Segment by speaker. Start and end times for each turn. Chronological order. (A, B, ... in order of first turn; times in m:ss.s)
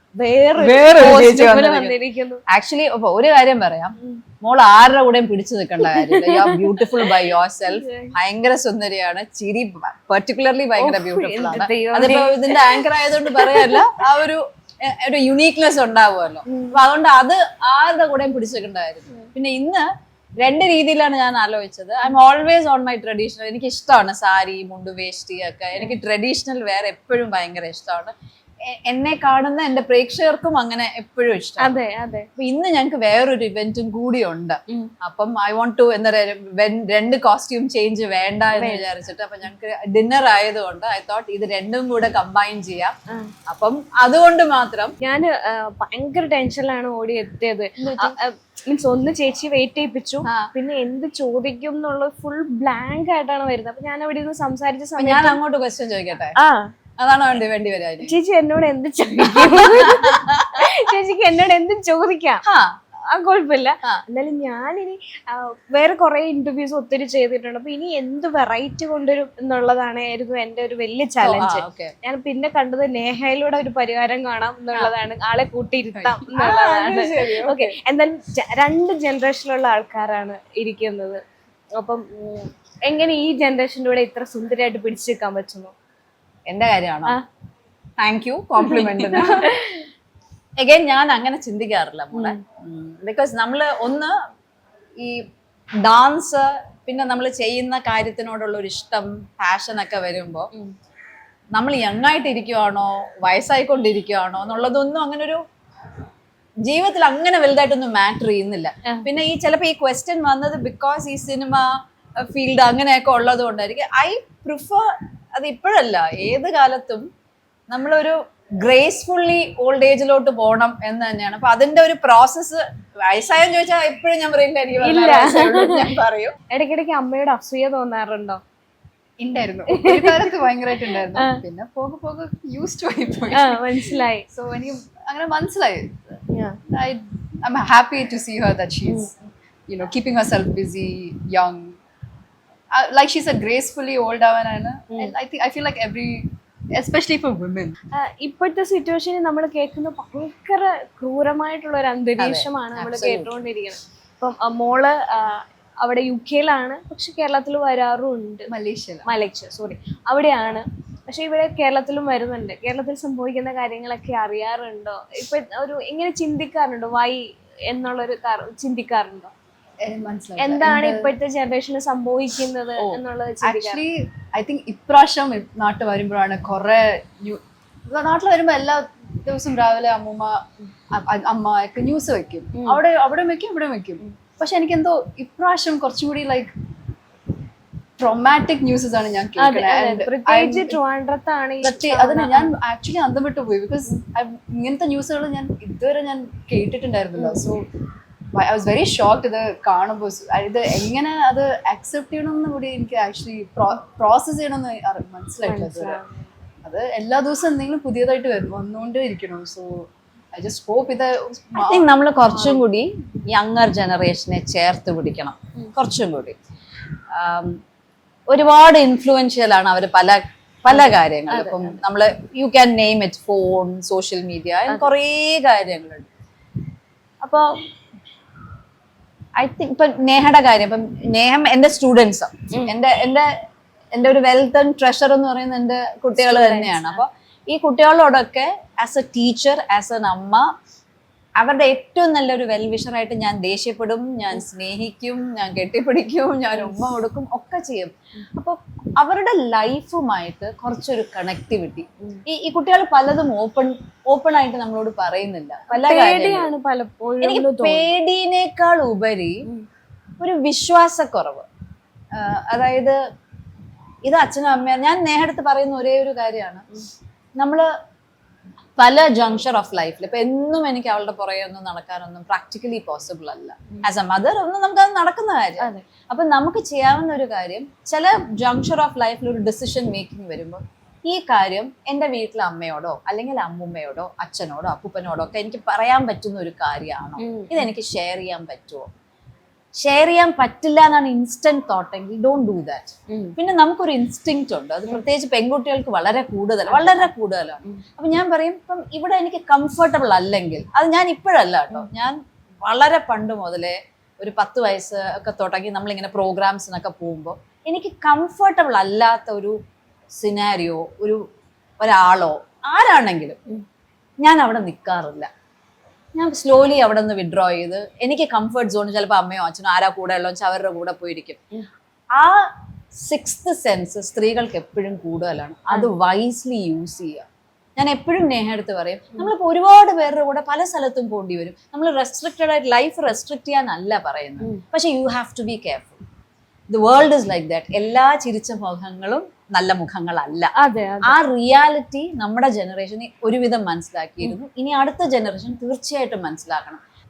0:00.2-0:02.4 A
0:00.6-0:01.4 B
0:00.9-0:01.9 C
0:02.5-0:19.8 C
0:05.8-0:06.6 A
0:07.6-0:08.1 A
0:10.8-0:13.8 A
0:16.5-0:16.7 A
0:20.4-0:28.1 C
0:28.7-0:31.7 C
0:31.6-0:32.2 A
0:32.4-0:42.9 C
0:38.6-0:38.9 A
0:43.5-0:44.9 C
0:45.0-0:55.4 A
0:47.8-0:48.1 C
0:50.2-0:50.5 C
0:55.0-0:56.4 C
0:56.4-0:56.7 A
0:57.0-0:58.1 C
0:58.0-1:02.4 A
0:59.3-1:00.6 C
1:02.4-1:02.7 C
1:03.1-1:21.2 A
1:11.2-1:11.9 C
1:16.0-1:17.7 B
1:21.8-1:25.7 A
1:26.5-1:27.2 C
1:28.0-1:29.5 C
1:28.6-1:29.8 A
1:30.6-1:34.1 C
1:35.8-1:40.5 C
1:41.5-1:45.4 C
1:46.6-1:51.7 C
1:52.2-1:57.0 C
1:57.7-2:06.3 C
2:04.8-2:05.8 A
2:06.5-2:08.4 A
2:09.2-2:15.9 B
2:09.7-2:10.3 A
2:10.8-2:11.4 A
2:13.3-2:14.2 A
2:16.3-2:16.6 A
2:16.7-2:19.1 B
2:19.7-2:21.7 B
2:22.7-2:27.7 B
2:27.9-2:38.5 A
2:32.2-2:33.3 C
2:38.5-2:39.1 B
2:39.0-2:49.3 A
2:49.8-2:51.1 B
2:50.4-2:53.8 A
2:52.8-3:06.5 B
3:02.5-3:02.8 A
3:08.0-3:10.8 B
3:09.4-3:12.5 A
3:11.6-3:17.6 B
3:17.2-3:17.6 A
3:18.3-3:26.0 B
3:25.4-3:26.2 A
3:26.6-3:31.8 B
3:31.6-3:36.3 C
3:32.3-3:32.6 A
3:37.1-3:37.5 C
3:38.3-3:46.1 C
3:40.7-3:41.8 A
3:49.4-3:53.3 C
3:53.9-4:00.4 C
3:56.2-3:57.0 A
4:01.4-4:16.5 C
4:15.7-4:18.0 A
4:17.2-4:19.4 C
4:20.2-4:21.4 C
4:22.1-4:23.0 C
4:24.0-4:26.6 C
4:27.4-4:27.6 C
4:28.8-4:48.9 C
4:35.6-4:35.8 A
4:47.2-4:47.7 A
4:49.8-5:09.6 C
4:53.1-4:53.4 A
4:56.7-4:57.1 A
5:10.2-5:11.2 C
5:11.8-5:13.4 C
5:14.2-5:15.3 C
5:16.1-5:21.4 C
5:22.1-5:22.5 C
5:23.0-5:27.2 C
5:27.8-5:36.0 C
5:36.7-5:40.5 C
5:40.6-5:41.2 A
5:41.0-5:46.8 C